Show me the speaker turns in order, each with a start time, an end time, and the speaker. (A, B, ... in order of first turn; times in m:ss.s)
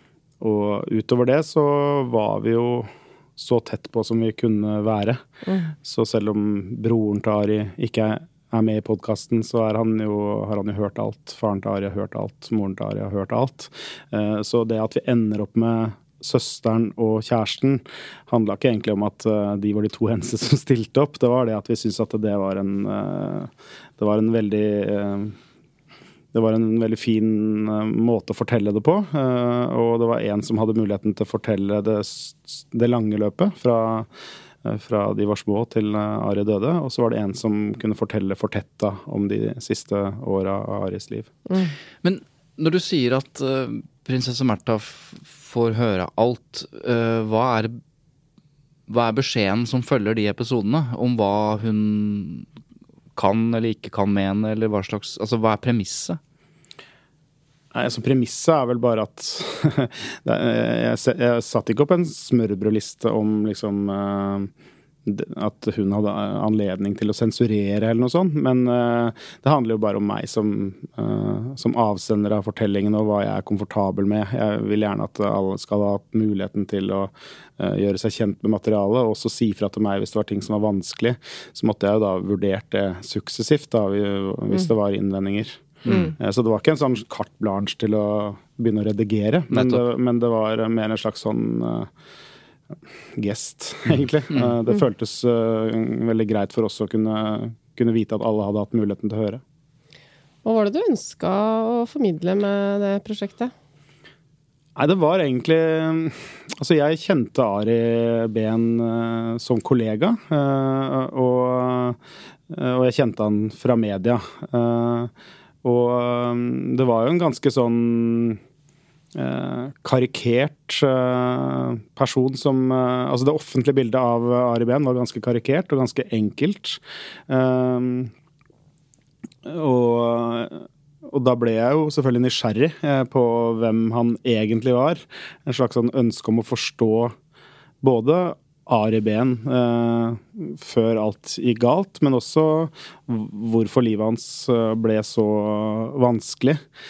0:00.4-0:05.2 A
0:05.5-0:05.7 B
0:05.8-0:25.4 A
0:26.3-0:34.1 A
0:34.6-0:41.3 A
0:42.0-0:47.8 C
0:48.9-0:52.5 C
0:53.2-0:56.2 C
0:57.7-1:04.5 A
1:05.1-1:31.9 A
1:25.9-1:26.1 C
1:25.9-1:26.1 B
1:29.5-1:29.8 C
1:33.2-1:39.4 A
1:33.9-1:34.5 C
1:40.4-1:43.5 B
1:44.8-1:52.0 A
1:52.5-1:55.1 A
1:55.6-1:58.4 A
1:59.1-2:08.1 A
2:09.4-2:17.2 A
2:17.8-2:26.6 A